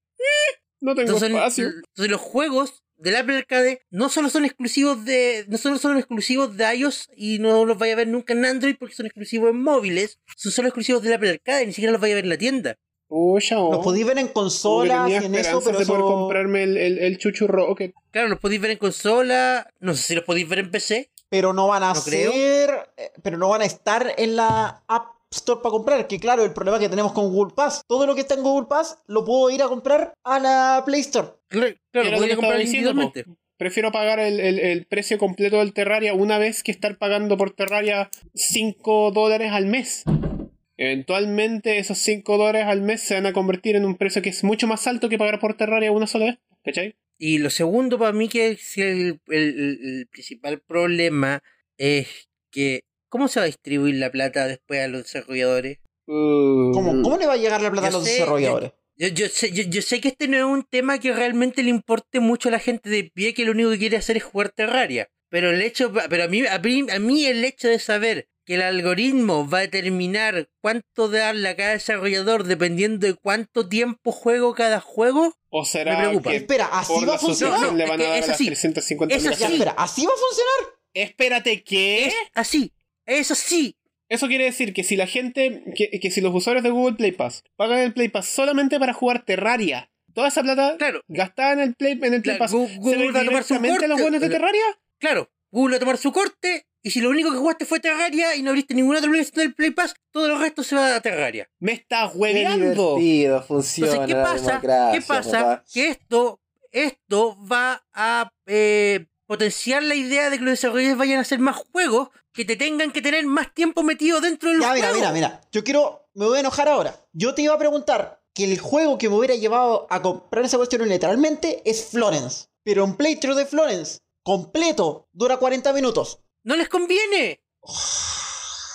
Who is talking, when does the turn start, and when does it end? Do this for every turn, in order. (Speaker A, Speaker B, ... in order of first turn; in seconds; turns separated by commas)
Speaker A: 0.2-1.8, Speaker B: 1.0-12.8, Speaker A: 13.1-14.0, Speaker C: 13.7-16.4, Speaker A: 14.6-17.9, Speaker B: 18.1-21.1, Speaker C: 21.3-31.3, Speaker B: 21.9-22.4, Speaker B: 31.5-33.2, Speaker A: 32.0-40.0, Speaker A: 40.8-46.9, Speaker B: 47.2-55.8, Speaker A: 56.1-57.1, Speaker C: 56.7-58.7, Speaker B: 57.8-75.3, Speaker A: 75.5-79.6, Speaker B: 75.8-76.4, Speaker C: 76.3-77.8, Speaker B: 77.4-78.5, Speaker B: 79.1-79.7, Speaker C: 79.3-80.7, Speaker A: 80.9-82.2, Speaker B: 82.0-83.8, Speaker A: 84.1-94.8, Speaker B: 92.2-94.4, Speaker B: 95.0-101.5, Speaker A: 101.6-103.0, Speaker D: 102.3-105.6, Speaker B: 103.8-115.1, Speaker C: 114.5-126.2, Speaker B: 126.4-127.4, Speaker C: 127.7-128.3